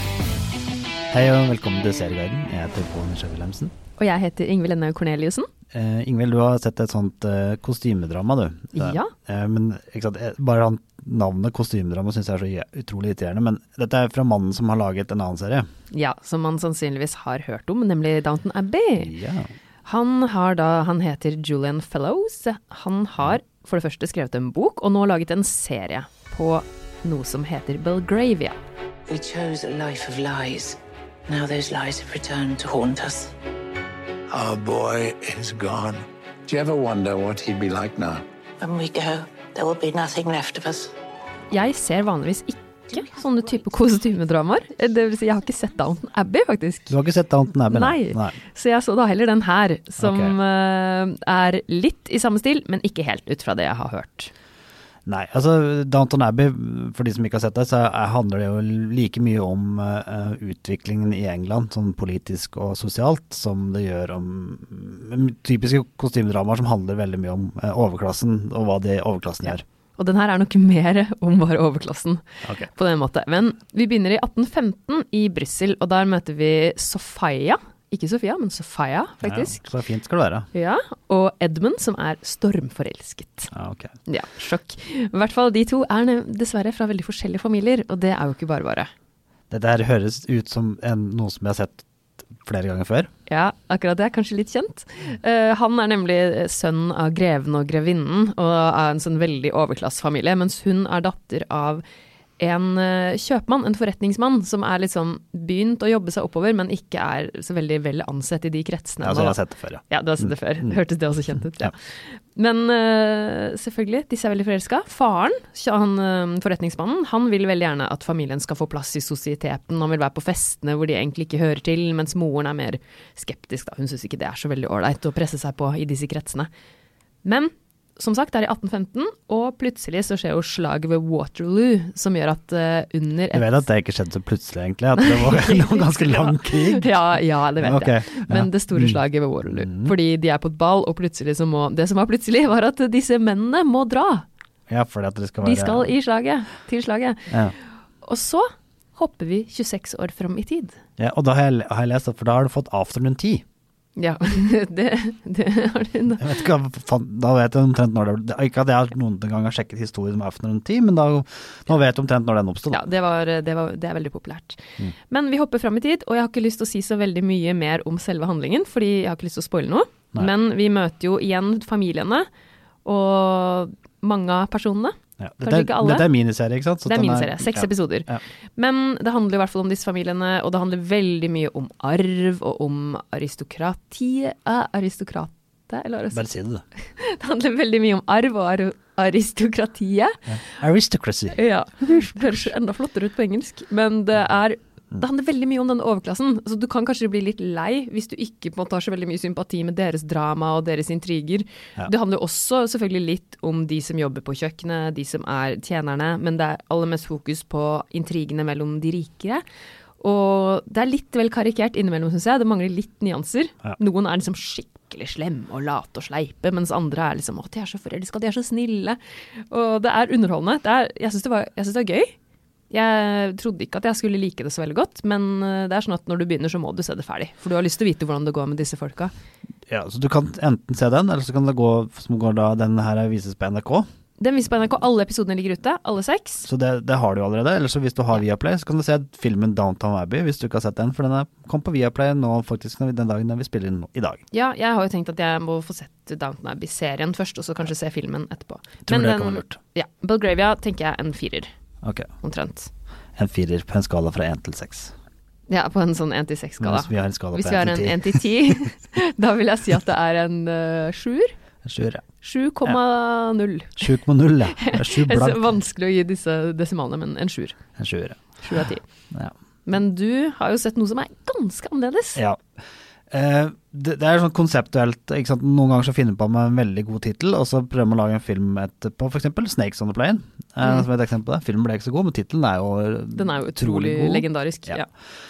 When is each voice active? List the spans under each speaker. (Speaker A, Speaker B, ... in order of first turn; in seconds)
Speaker A: 1.1-3.7, 5.7-15.7, 19.0-19.5, 46.9-48.4, 50.0-50.4, 55.0-69.6, 72.4-72.7, 79.2-80.5, 83.5-83.9, 89.5-93.1, 109.0-110.8, 133.3-137.0, 137.6-139.9, 144.7-145.9, 147.3-147.5, 151.0-153.4, 156.2-162.9, 175.2-178.2, 186.1-186.6, 190.3-192.4, 229.7-233.8, 236.4-244.2, 248.8-249.6, 251.8-252.1, 253.2-254.9, 256.6-258.6, 261.6-262.0, 263.8-265.6, 267.8-268.4, 272.1-272.4, 273.1-284.8
Speaker B: 4.0-5.5, 8.8-9.1, 15.9-19.1, 19.8-28.6, 41.5-46.9, 47.7-54.3, 70.0-79.7, 80.5-83.5, 84.1-88.9, 93.3-101.8, 102.4-126.5, 127.2-133.6, 134.9-144.2, 145.4-147.3, 148.0-150.8, 153.9-156.5, 162.7-172.3, 172.8-176.1, 176.8-186.2, 186.8-190.2, 191.3-209.4, 210.0-222.1, 222.7-229.1, 234.2-236.4, 244.3-251.5, 252.2-252.7, 255.5-261.3, 262.2-263.9, 264.5-267.6, 268.4-268.8, 269.6-272.2, 280.6-280.9, 283.1-284.9
Speaker C: 29.1-33.3, 38.6-40.9
Speaker D: 34.3-38.2